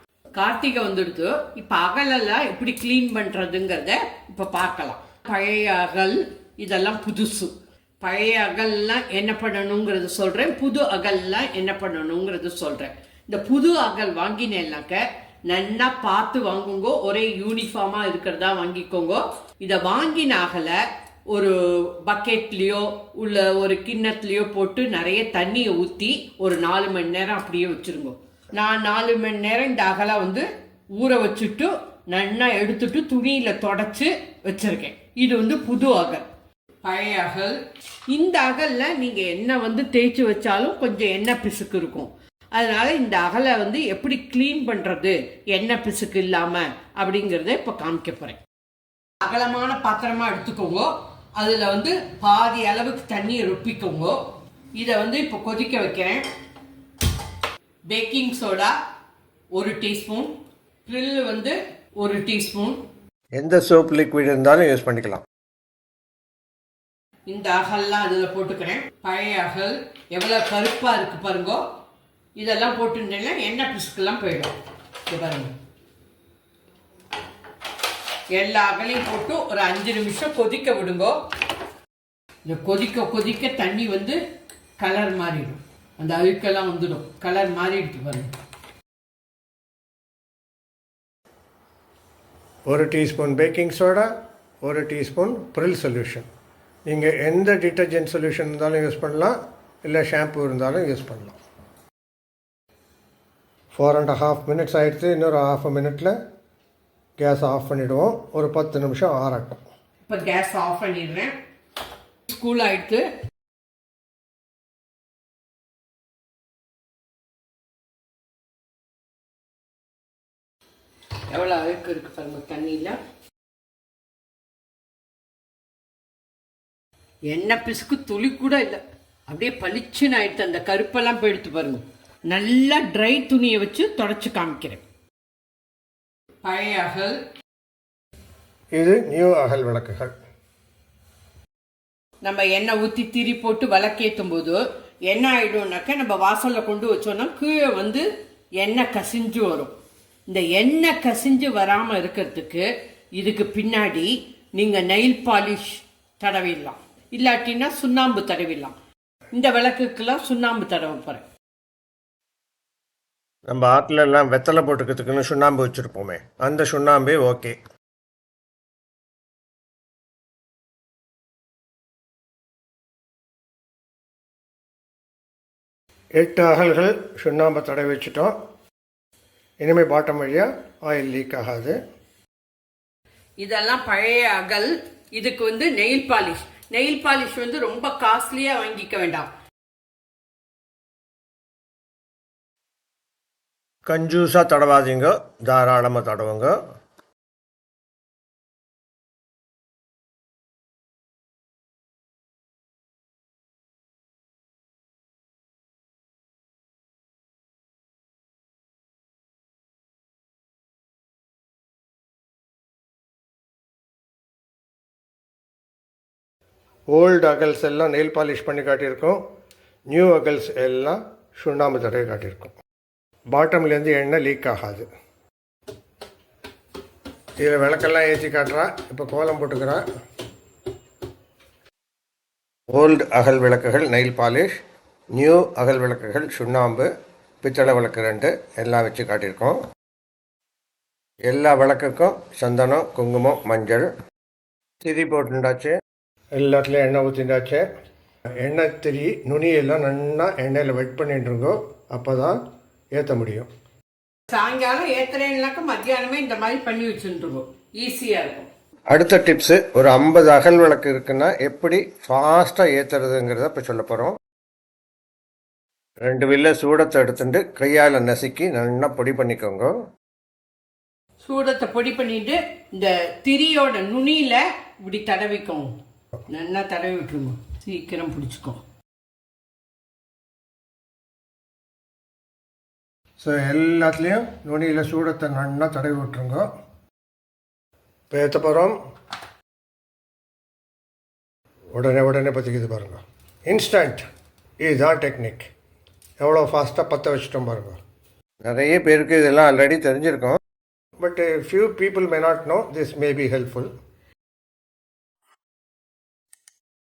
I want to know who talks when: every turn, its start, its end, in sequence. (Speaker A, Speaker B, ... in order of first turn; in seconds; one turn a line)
Speaker A: 0.3-36.2
Speaker A: 36.8-37.6
Speaker A: 38.1-48.4
Speaker A: 49.2-54.2
Speaker A: 54.8-56.2
Speaker A: 57.9-58.7
Speaker A: 59.5-60.3
Speaker A: 60.9-62.8
Speaker B: 63.4-65.2
Speaker A: 67.3-71.6
Speaker A: 72.4-74.5
Speaker A: 75.1-75.5
Speaker A: 78.3-81.2
Speaker A: 82.4-84.2
Speaker A: 84.8-88.3
Speaker B: 92.7-94.1
Speaker B: 94.6-96.3
Speaker B: 96.9-101.4
Speaker B: 103.7-106.2
Speaker B: 107.2-109.6
Speaker A: 110.1-111.3
Speaker A: 112.3-113.1
Speaker A: 121.3-123.0
Speaker A: 127.3-134.8
Speaker A: 136.4-137.2
Speaker B: 138.8-140.1
Speaker A: 142.2-148.0
Speaker A: 148.6-149.7
Speaker A: 150.3-152.7
Speaker A: 153.2-158.8
Speaker A: 159.3-161.2
Speaker B: 163.5-167.5
Speaker B: 176.2-178.3
Speaker B: 179.6-181.8
Speaker A: 183.4-189.3
Speaker B: 193.9-196.5
Speaker B: 216.9-219.2
Speaker B: 219.9-222.5
Speaker B: 223.3-224.8
Speaker B: 227.4-229.8
Speaker B: 232.7-234.5
Speaker B: 235.1-236.9
Speaker B: 237.4-239.6
Speaker B: 241.3-243.9
Speaker B: 244.8-245.7
Speaker B: 246.3-247.6
Speaker B: 248.4-252.3
Speaker B: 252.9-253.5
Speaker A: 254.3-258.5
Speaker B: 258.9-264.1
Speaker B: 266.0-269.7
Speaker A: 271.2-275.7
Speaker A: 276.3-278.6
Speaker B: 283.2-286.5
Speaker B: 288.1-288.7
Speaker B: 291.7-294.0
Speaker B: 294.6-295.5
Speaker B: 296.2-297.8
Speaker B: 298.4-300.4
Speaker B: 301.0-303.7